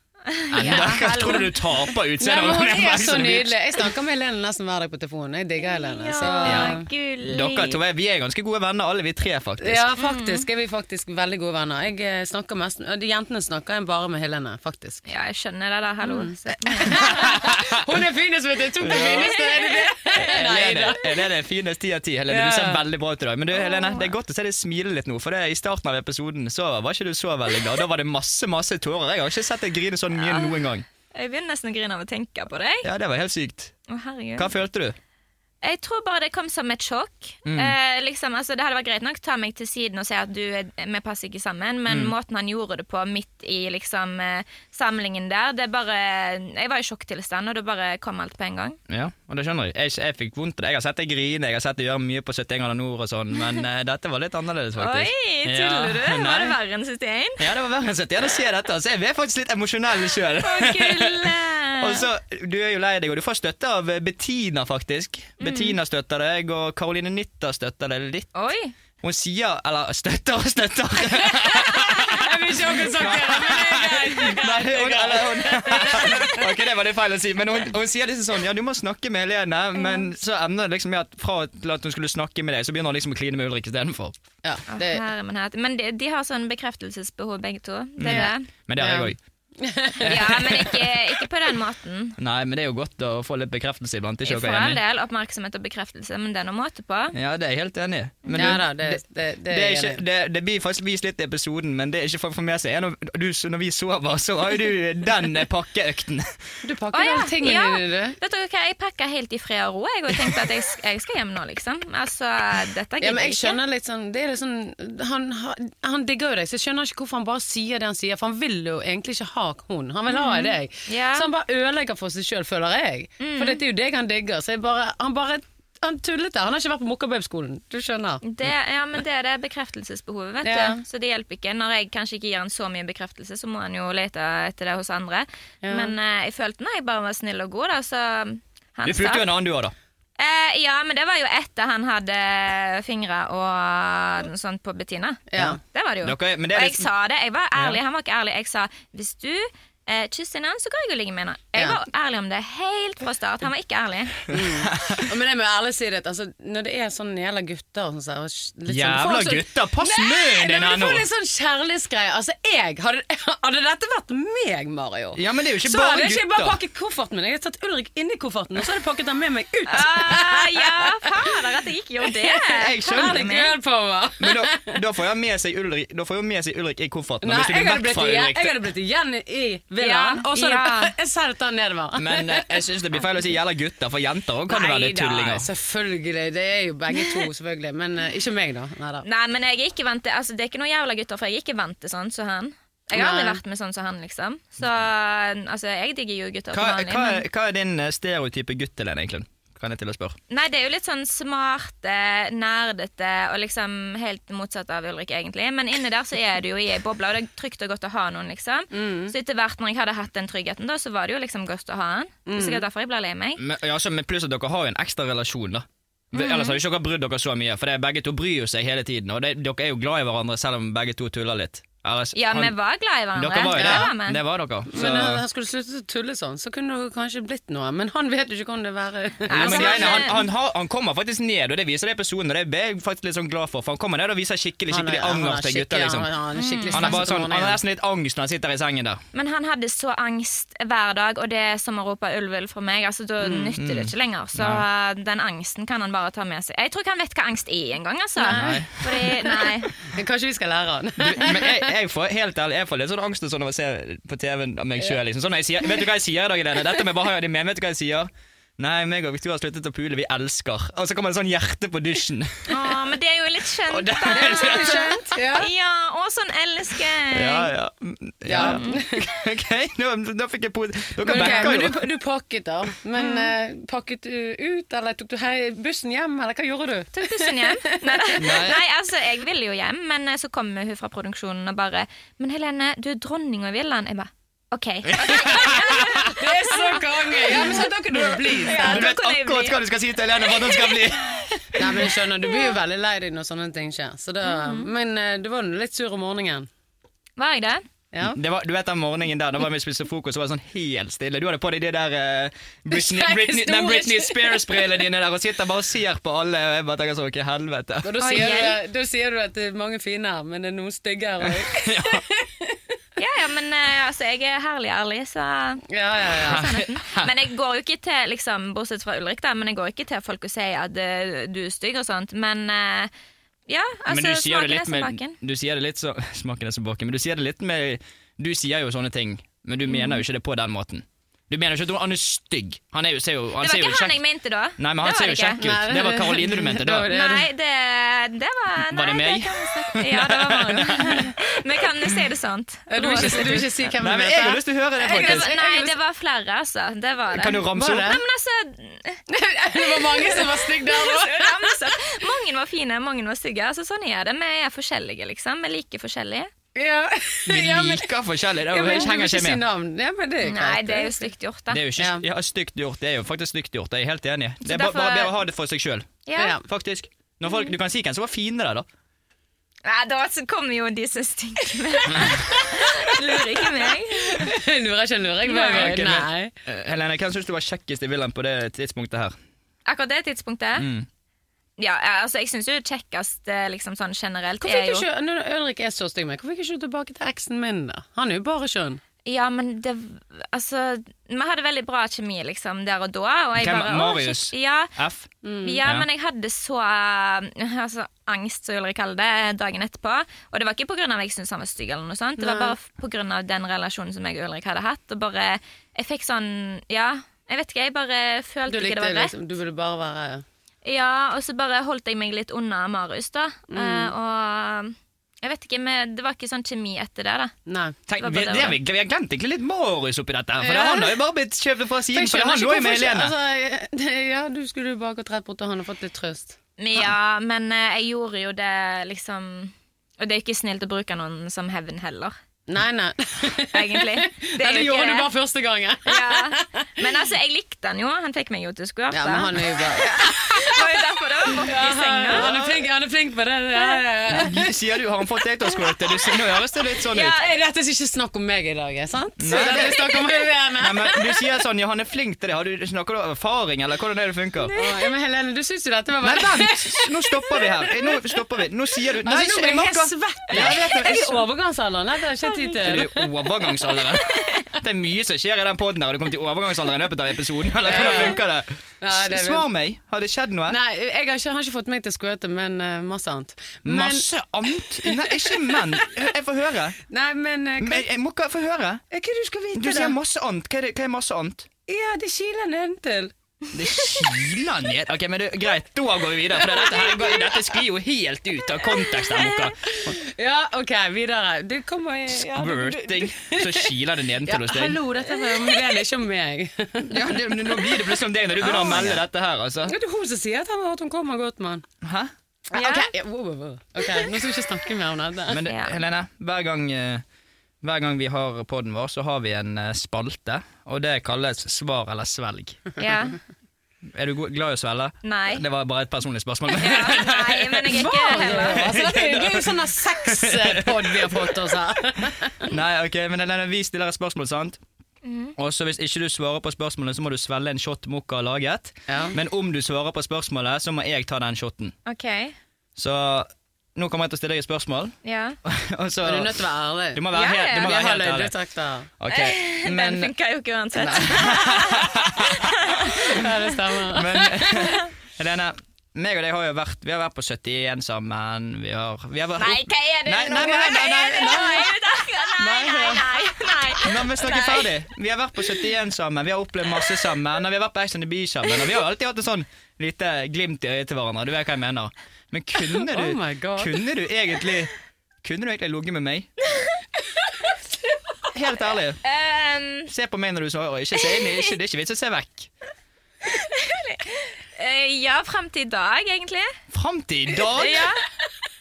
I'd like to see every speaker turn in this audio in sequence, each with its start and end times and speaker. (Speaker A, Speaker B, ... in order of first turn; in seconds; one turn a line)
Speaker A: 0.3-1.6
Speaker B: 0.5-3.8
Speaker C: 0.6-0.9
Speaker C: 2.2-6.9
Speaker A: 5.6-7.8
Speaker B: 6.4-9.9
Speaker C: 9.6-15.0
Speaker A: 10.0-10.4
Speaker A: 15.1-17.4
Speaker C: 16.0-21.1
Speaker B: 16.9-17.8
Speaker B: 18.8-19.4
Speaker A: 19.5-19.9
Speaker B: 20.1-30.8
Speaker C: 22.3-22.8
Speaker A: 23.5-24.1
Speaker A: 30.2-30.6
Speaker A: 31.1-32.9
Speaker B: 32.8-33.7
Speaker A: 33.9-34.5
Speaker B: 34.4-35.0
Speaker A: 35.6-48.8
Speaker B: 37.5-37.7
Speaker B: 41.9-42.1
Speaker B: 48.9-56.6
Speaker A: 54.8-57.5
Speaker B: 57.4-68.3
Speaker A: 60.4-62.0
Speaker A: 65.4-65.8
Speaker A: 68.3-68.7
Speaker B: 69.0-84.2
Speaker C: 71.4-76.4
Speaker C: 84.4-85.0
Speaker A: 84.7-88.5
Speaker B: 88.0-89.2
Speaker C: 88.1-90.4
Speaker B: 90.0-90.8
Speaker A: 90.0-92.2
Speaker B: 92.2-94.8
Speaker A: 94.2-97.2
Speaker B: 97.1-106.4
Speaker A: 98.2-98.6
Speaker C: 98.3-100.0
Speaker C: 106.6-108.2
Speaker A: 106.9-113.6
Speaker C: 113.0-128.2
Speaker A: 120.1-121.3
Speaker A: 123.2-123.6
Speaker A: 128.2-139.3
Speaker C: 130.4-130.8
Speaker C: 135.6-135.9
Speaker B: 138.8-139.7
Speaker A: 140.2-154.3
Speaker C: 145.3-145.6
Speaker B: 145.4-146.9
Speaker C: 154.3-171.3
Speaker B: 154.4-155.1
Speaker B: 158.7-161.1
Speaker B: 165.1-166.6
Speaker A: 169.7-173.5
Speaker C: 172.0-174.8
Speaker B: 172.5-173.3
Speaker B: 174.2-178.6
Speaker C: 177.2-182.6
Speaker A: 179.8-180.9
Speaker B: 181.9-185.5
Speaker A: 184.5-185.3
Speaker C: 185.3-189.1
Speaker A: 189.0-197.2
Speaker C: 192.9-193.4
Speaker B: 196.5-200.2
Speaker A: 200.3-213.4
Speaker C: 208.7-209.1
Speaker C: 212.2-212.6
Speaker B: 213.4-222.5
Speaker A: 216.1-216.6
Speaker A: 222.1-224.2
Speaker B: 223.1-225.2
Speaker C: 223.5-223.9
Speaker C: 224.7-230.2
Speaker A: 229.3-230.2
Speaker B: 229.3-236.1
Speaker C: 234.7-237.6
Speaker A: 236.3-237.0
Speaker B: 236.7-239.0
Speaker A: 239.1-249.7
Speaker C: 243.2-243.5
Speaker B: 243.6-244.6
Speaker C: 248.2-248.6
Speaker B: 248.3-249.0
Speaker C: 249.8-251.7
Speaker B: 251.0-262.5
Speaker A: 262.5-267.5
Speaker B: 263.7-264.9
Speaker C: 264.1-265.5
Speaker B: 267.1-271.8
Speaker C: 268.2-269.0
Speaker A: 268.3-268.8
Speaker C: 271.0-278.3
Speaker A: 271.1-271.6
Speaker A: 273.0-273.3
Speaker A: 276.9-287.7
Speaker B: 278.2-278.6
Speaker B: 284.8-286.1
Speaker C: 286.0-288.9
Speaker B: 287.3-291.9
Speaker A: 288.3-289.6
Speaker A: 290.2-292.5
Speaker C: 291.6-296.5
Speaker A: 294.2-294.7
Speaker A: 297.2-297.6
Speaker C: 297.9-298.2
Speaker B: 298.0-308.0
Speaker C: 302.7-304.7
Speaker C: 307.8-312.6
Speaker A: 308.0-308.6
Speaker B: 311.2-312.0
Speaker A: 313.0-322.9
Speaker C: 315.7-316.5
Speaker B: 316.2-317.1
Speaker A: 323.5-325.1
Speaker B: 323.9-334.0
Speaker A: 329.7-330.0
Speaker A: 333.4-335.4
Speaker B: 334.6-336.9
Speaker C: 335.4-337.3
Speaker A: 336.9-343.5
Speaker B: 338.7-341.9
Speaker C: 342.7-345.7
Speaker B: 342.8-345.3
Speaker A: 344.8-349.0
Speaker B: 347.1-348.0
Speaker C: 347.5-348.0
Speaker C: 349.1-351.6
Speaker A: 349.6-356.3
Speaker C: 356.5-357.9
Speaker B: 357.3-359.4
Speaker C: 358.5-361.1
Speaker A: 360.2-361.6
Speaker B: 361.5-368.7
Speaker C: 361.8-362.0
Speaker A: 364.4-365.1
Speaker A: 366.1-366.4
Speaker C: 366.1-366.4
Speaker A: 369.6-374.3
Speaker B: 371.9-372.3
Speaker C: 372.0-376.3
Speaker A: 375.3-375.7
Speaker B: 375.3-379.1
Speaker A: 379.7-380.7
Speaker B: 380.6-380.9
Speaker A: 381.6-384.9
Speaker C: 384.4-388.8
Speaker A: 389.1-394.7
Speaker B: 393.4-395.1
Speaker C: 395.2-395.6
Speaker A: 395.4-409.1
Speaker C: 402.2-402.5
Speaker C: 408.5-410.2
Speaker A: 410.6-417.3
Speaker C: 413.5-413.9
Speaker C: 417.5-417.8
Speaker B: 417.9-423.1
Speaker A: 418.0-418.6
Speaker C: 420.4-421.0
Speaker C: 421.9-426.9
Speaker A: 426.6-432.1
Speaker C: 432.5-436.8
Speaker A: 433.5-435.1
Speaker A: 435.9-442.3
Speaker C: 438.9-444.5
Speaker B: 442.1-442.6
Speaker B: 444.1-447.2
Speaker A: 446.9-447.3
Speaker C: 446.9-451.0
Speaker B: 449.2-454.5
Speaker A: 454.5-454.9
Speaker C: 454.5-458.2
Speaker B: 456.0-461.3
Speaker C: 459.0-463.1
Speaker A: 462.2-462.8
Speaker B: 462.6-470.6
Speaker C: 467.6-468.2
Speaker C: 468.8-469.5
Speaker C: 470.5-475.8
Speaker B: 473.6-476.8
Speaker C: 476.9-477.9
Speaker B: 477.6-478.8
Speaker C: 478.9-479.9
Speaker B: 479.5-481.5
Speaker C: 481.7-483.1
Speaker B: 483.5-489.9
Speaker C: 486.5-487.3
Speaker C: 489.7-499.0
Speaker B: 492.1-494.8
Speaker B: 496.9-499.7
Speaker A: 498.4-498.9
Speaker C: 499.6-501.6
Speaker B: 501.8-502.1
Speaker C: 502.5-505.4
Speaker A: 502.5-502.9
Speaker B: 505.3-507.0
Speaker A: 505.4-505.7
Speaker B: 507.6-512.7
Speaker A: 512.8-513.2
Speaker B: 513.9-521.6
Speaker A: 515.0-515.4
Speaker A: 516.5-518.6
Speaker C: 517.7-522.5
Speaker B: 522.4-524.6
Speaker A: 525.0-525.3
Speaker B: 525.4-531.7
Speaker C: 528.9-529.1
Speaker A: 531.9-532.3
Speaker B: 532.8-536.4
Speaker A: 535.0-535.4
Speaker C: 536.0-537.1
Speaker B: 536.9-538.3
Speaker A: 537.1-537.7
Speaker C: 537.6-538.9
Speaker B: 539.0-540.1
Speaker A: 539.1-543.0
Speaker B: 540.7-543.2
Speaker C: 542.8-544.8
Speaker B: 543.9-564.7
Speaker A: 549.4-554.7
Speaker C: 562.6-563.8
Speaker B: 565.2-566.3
Speaker B: 568.3-569.0
Speaker A: 569.0-569.9
Speaker B: 569.9-572.5
Speaker A: 571.0-571.5
Speaker A: 573.3-576.6
Speaker B: 576.7-577.9
Speaker A: 577.5-578.0